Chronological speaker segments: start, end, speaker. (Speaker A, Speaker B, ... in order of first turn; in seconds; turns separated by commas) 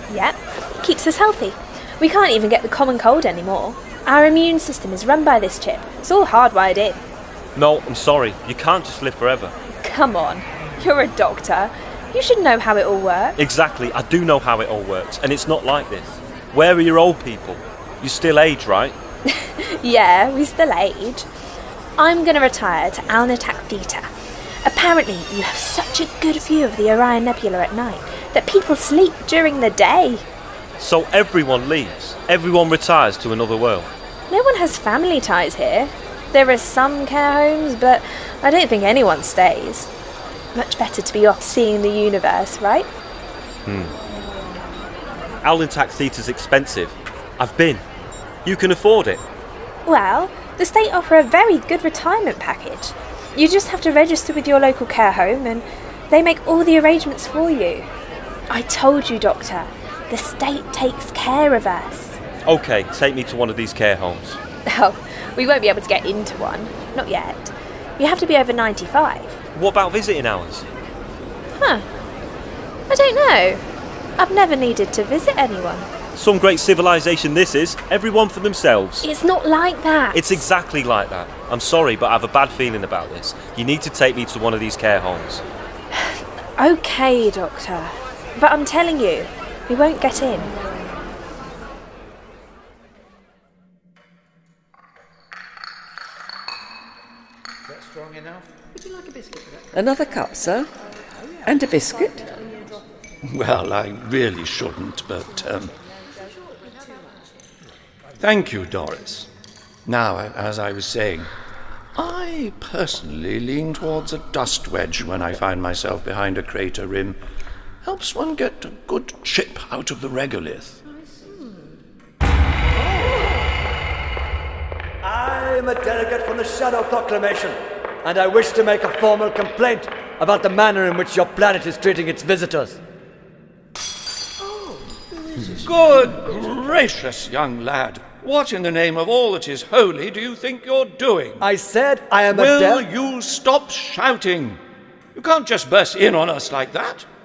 Speaker A: 0.1-7.0, Speaker B: 7.5-9.5, Speaker A: 9.8-13.4, Speaker B: 13.4-18.9, Speaker A: 19.3-21.3, Speaker A: 22.0-24.1, Speaker A: 24.6-30.2, Speaker B: 30.8-33.9, Speaker A: 34.3-39.9, Speaker A: 40.5-42.9, Speaker B: 43.6-43.9, Speaker B: 45.4-47.8, Speaker B: 48.4-49.2, Speaker A: 49.9-57.9, Speaker A: 58.5-62.2, Speaker B: 62.4-64.4, Speaker A: 64.7-69.4, Speaker B: 69.5-70.7, Speaker A: 71.5-71.8, Speaker A: 72.9-73.6, Speaker A: 74.2-75.9, Speaker B: 76.1-79.0, Speaker A: 79.0-80.4, Speaker B: 80.1-85.4, Speaker A: 85.9-90.5, Speaker C: 99.7-100.7, Speaker C: 101.4-102.6, Speaker D: 103.2-105.8, Speaker D: 108.2-109.3, Speaker D: 109.8-111.3, Speaker D: 112.0-117.2, Speaker D: 117.8-120.8, Speaker E: 125.0-132.8, Speaker D: 135.6-141.5, Speaker E: 141.4-142.8, Speaker D: 142.3-144.6, Speaker D: 145.1-147.1